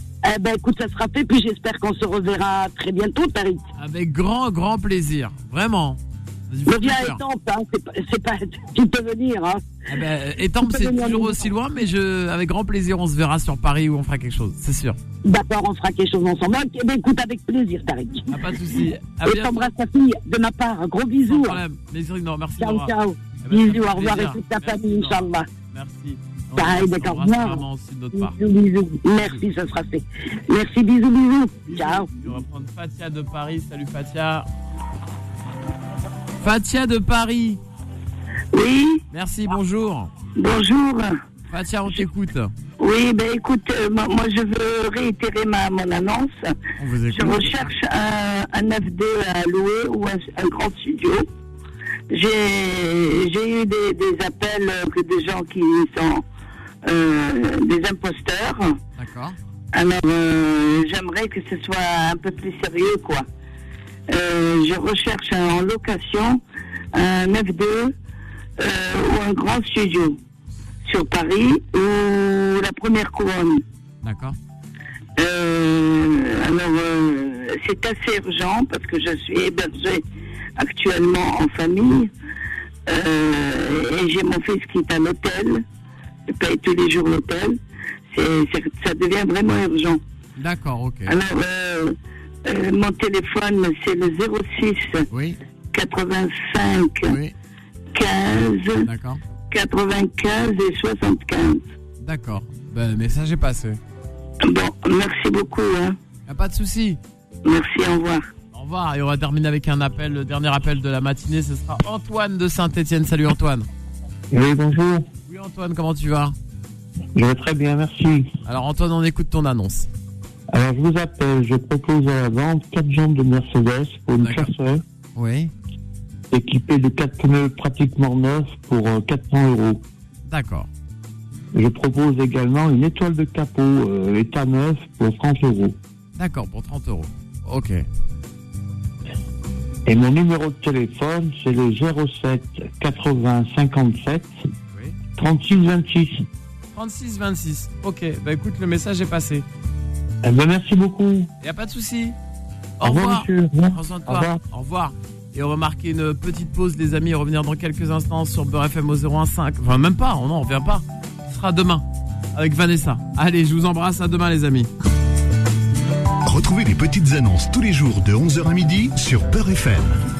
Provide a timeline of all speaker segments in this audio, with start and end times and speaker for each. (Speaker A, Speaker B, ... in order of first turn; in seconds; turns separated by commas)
Speaker A: 0.2-3.6, Speaker B: 3.8-7.2, Speaker A: 6.7-9.6, Speaker B: 9.9-15.0, Speaker A: 10.6-11.4, Speaker A: 15.2-18.3, Speaker B: 18.3-19.7, Speaker A: 19.2-21.6, Speaker B: 21.3-28.3, Speaker A: 22.6-25.5, Speaker A: 26.6-32.1, Speaker B: 31.6-34.5, Speaker B: 36.4-37.6, Speaker C: 38.5-39.0, Speaker B: 39.1-40.1, Speaker C: 40.4-41.2, Speaker B: 41.5-42.5, Speaker C: 42.8-46.5, Speaker B: 46.8-47.7, Speaker C: 47.1-51.3, Speaker C: 52.1-56.2, Speaker C: 56.8-58.8, Speaker B: 59.0-59.4, Speaker C: 59.7-63.2, Speaker C: 64.1-66.4, Speaker C: 66.9-67.9, Speaker C: 68.6-70.2, Speaker C: 70.8-73.6, Speaker B: 74.0-74.4, Speaker C: 75.2-80.0, Speaker C: 80.6-82.1, Speaker C: 82.9-85.6, Speaker C: 86.3-87.6, Speaker C: 88.1-90.0, Speaker B: 90.4-91.2, Speaker C: 91.1-95.0, Speaker B: 95.1-95.4, Speaker C: 95.7-97.1, Speaker B: 97.0-97.3, Speaker C: 97.9-98.9, Speaker B: 98.8-99.2, Speaker C: 99.5-101.6, Speaker B: 102.0-103.8, Speaker C: 104.4-106.0, Speaker B: 106.3-107.0, Speaker C: 107.4-108.2, Speaker B: 108.5-113.7, Speaker D: 114.3-115.0, Speaker B: 115.3-116.3, Speaker D: 117.1-118.3, Speaker B: 118.5-119.9, Speaker D: 120.5-124.8, Speaker B: 124.2-124.5, Speaker B: 125.1-125.5, Speaker D: 126.3-129.8, Speaker B: 130.3-130.7, Speaker D: 131.5-135.8, Speaker B: 136.2-137.8, Speaker D: 139.8-144.3, Speaker D: 145.2-146.2, Speaker B: 146.7-149.4, Speaker D: 150.2-151.3, Speaker B: 151.4-152.1, Speaker B: 152.8-164.7, Speaker D: 152.8-154.4, Speaker E: 166.2-170.0